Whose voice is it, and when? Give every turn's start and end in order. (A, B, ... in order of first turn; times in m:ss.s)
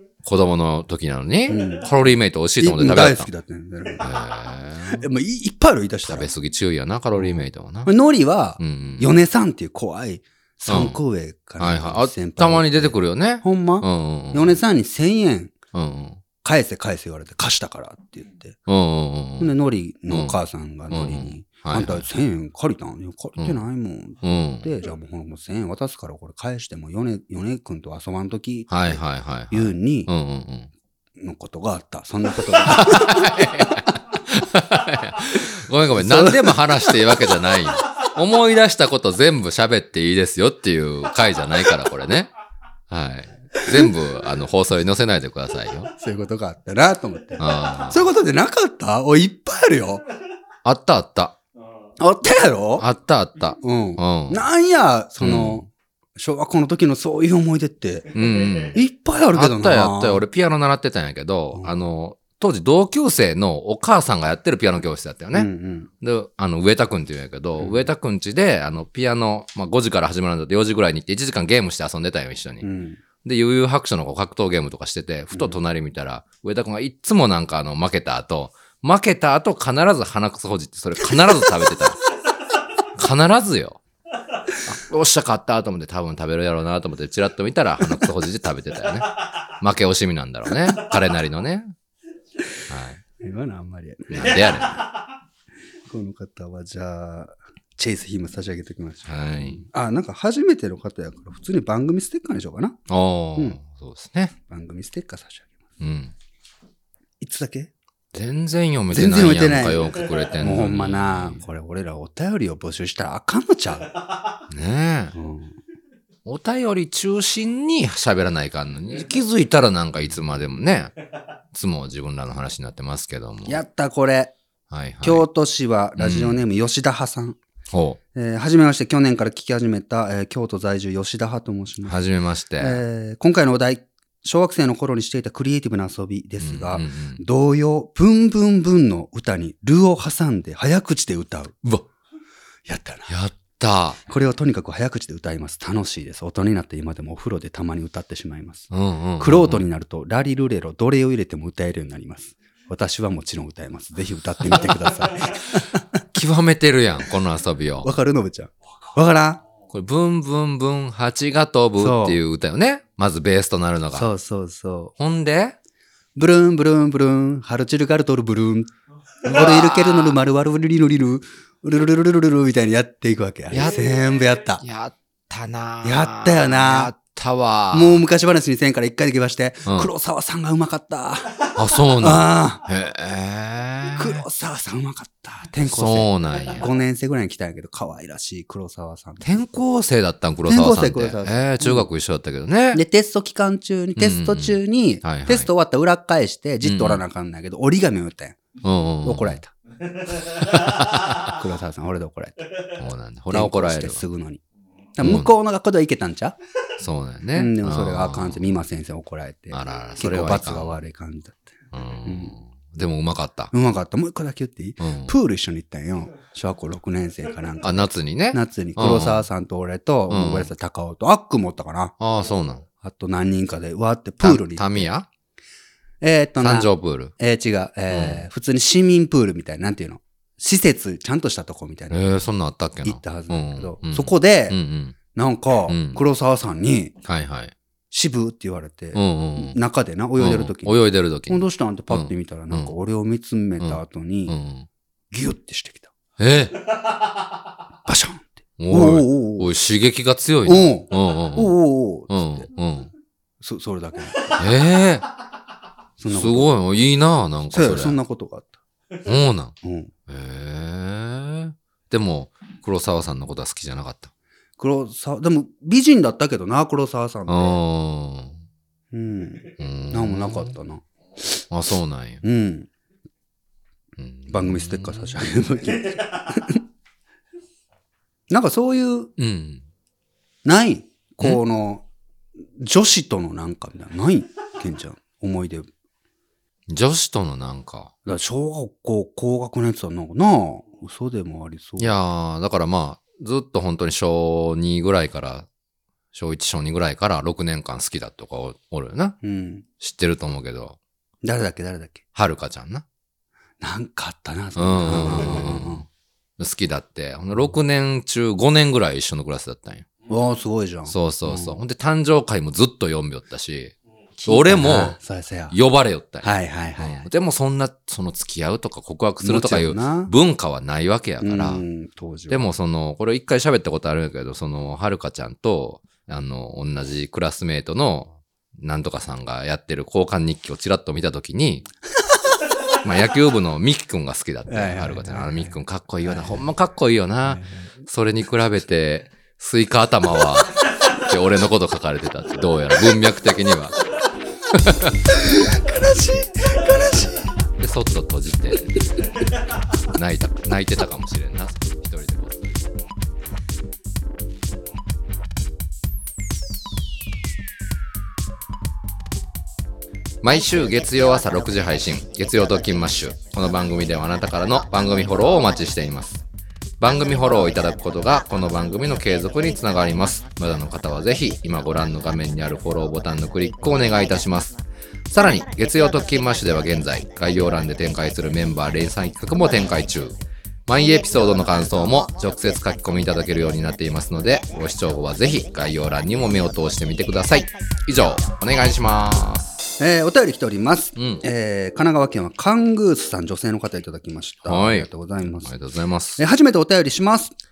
0:00.2-0:03.3 A
0:01.5-0:01.9 B
0:02.6-0:04.1 B
0:04.0-0:05.0 A
0:04.9-0:06.3 B
0:06.0-0:07.9 A
0:07.2-0:15.5 B
0:08.6-0:09.1 A
0:10.7-0:11.0 A
0:11.6-0:14.6 A
0:15.7-0:16.2 A
0:16.4-0:18.6 B
0:18.7-0:19.5 A
0:19.4-0:29.0 B
0:20.1-0:20.4 A
0:20.9-0:22.0 A
0:24.2-0:24.7 A
0:28.7-0:30.7 A
0:29.5-0:30.1 B
0:31.2-0:33.9 B
0:32.4-0:42.3 A
0:36.0-0:37.2 B
0:42.9-0:45.9 A
0:43.6-0:43.9 B
0:46.0-0:50.0 B
0:47.4-0:48.1 A
0:50.6-0:51.4 A
0:52.0-0:52.9 B
0:52.8-0:54.4 A
0:53.6-0:58.2 B
0:55.2-0:55.6 A
0:58.1-0:58.8 A
0:58.7-1:00.2 B
0:59.3-1:05.5 A
1:05.3-1:05.9 B
1:06.0-1:12.6 A
1:07.6-1:07.9 B
1:12.6-1:13.0 B
1:13.2-1:22.0 A
1:23.0-1:23.8 A
1:24.6-1:31.7 A
1:32.7-1:33.0 A
1:33.2-1:34.6 B
1:34.1-1:34.8 A
1:35.9-1:42.8 B
1:39.1-1:39.6 A
1:42.9-1:44.3 A
1:44.5-1:45.6 B
1:45.8-1:46.1 A
1:47.2-1:47.7 B
1:48.1-1:51.4 A
1:48.9-1:54.0 B
1:54.5-1:55.2 A
1:55.1-1:55.6 B
1:56.2-2:01.0 A
2:01.5-2:03.6 A
2:03.5-2:04.3 B
2:04.7-2:05.3 A
2:05.0-2:07.4 B
2:06.0-2:06.4 A
2:07.7-2:08.0 A
2:08.2-2:12.0 B
2:11.8-2:12.8 A
2:12.6-2:21.6 B
2:16.4-2:17.2 A
2:22.7-2:23.1 B
2:23.1-2:24.0 A
2:24.1-2:35.8 B
2:28.7-2:29.7 A
2:36.1-2:37.9 A
2:37.8-2:39.4 B
2:39.7-2:44.1 A
2:41.8-2:42.2 B
2:43.9-2:44.9 B
2:45.0-2:45.6 A
2:46.2-2:48.7 B
2:49.2-2:54.6 B
2:49.3-2:50.2 A
2:53.5-2:53.9 A
2:54.6-2:58.0 A
2:55.8-2:56.9 B
2:57.7-3:02.6 B
3:01.6-3:04.2 A
3:03.9-3:09.4 B
3:05.6-3:06.7 A
3:09.2-3:12.8 A
3:10.5-3:11.9 B
3:12.7-3:18.4 B
3:14.0-3:15.5 A
3:16.6-3:17.0 A
3:18.6-3:19.4 A
3:19.0-3:19.5 B
3:20.1-3:21.4 A
3:21.0-3:22.7 B
3:22.8-3:24.0 A
3:23.3-3:24.4 B
3:25.0-3:26.4 B
3:25.0-3:25.3 A
3:26.8-3:28.5 A
3:27.4-3:31.5 B
3:29.5-3:30.8 A
3:31.7-3:33.5 A
3:32.0-3:32.4 B
3:33.5-3:37.8 B
3:34.8-3:35.2 A
3:37.6-3:39.3 A
3:38.3-3:41.9 B
3:40.1-3:40.5 A
3:42.0-3:42.6 A
3:42.8-3:44.9 B
3:44.2-3:45.1 A
3:46.0-3:52.1 B
3:46.4-3:47.1 A
3:47.9-3:48.2 A
3:51.9-3:55.0 A
3:52.8-3:54.6 B
3:55.1-3:57.0 B
3:55.7-3:56.0 A
3:57.0-3:57.5 A
3:57.9-4:00.8 B
3:58.9-3:59.6 A
4:00.2-4:02.7 A
4:01.3-4:04.4 B
4:03.6-4:04.7 A
4:05.1-4:05.9 B
4:06.2-4:06.7 A
4:07.9-4:09.5 B
4:08.6-4:11.6 A
4:10.4-4:12.4 B
4:12.1-4:12.9 A
4:13.4-4:14.4 B
4:14.3-4:15.1 A
4:16.0-4:16.5 B
4:16.1-4:18.0 A
4:17.5-4:18.6 B
4:19.0-4:19.6 A
4:19.6-4:19.9 B
4:20.1-4:24.1 A
4:24.6-4:27.6 B
4:27.3-4:28.4 A
4:28.9-4:30.8 B
4:29.6-4:30.5 A
4:31.5-4:32.2 A
4:32.2-4:32.7 B
4:34.0-4:35.2 A
4:34.3-4:36.6 B
4:38.3-4:39.1 B
4:39.2-4:39.6 A
4:40.4-4:41.8 B
4:42.6-4:45.7 B
4:46.7-4:47.9 A
4:48.1-4:51.9 B
4:51.8-4:55.5 A
4:56.1-4:59.2 A
4:59.2-4:59.6 B
4:59.8-5:00.8 A
5:01.2-5:02.0 B
5:02.2-5:02.8 A
5:03.6-5:05.9 B
5:04.6-5:05.8 A
5:06.4-5:09.9 A
5:10.1-5:11.6 B
5:10.9-5:13.7 A
5:14.2-5:15.6 B
5:14.3-5:15.0 A
5:15.5-5:21.6 A
5:16.2-5:17.1 B
5:19.2-5:20.1 B
5:21.2-5:22.5 B
5:22.3-5:31.6 A
5:32.8-5:43.8 A
5:34.5-5:36.4 B
5:37.3-5:37.7 B
5:44.5-5:45.0 A
5:45.1-5:47.4 B
5:47.6-5:48.8 A
5:49.9-5:52.5 A
6:00.2-6:06.2 A
6:06.8-6:14.6 A
6:15.1-6:29.7 A
6:29.8-6:35.5 B
6:31.0-6:31.2 A
6:34.5-6:34.9 A
6:35.4-6:36.2 A
6:36.2-6:37.3 B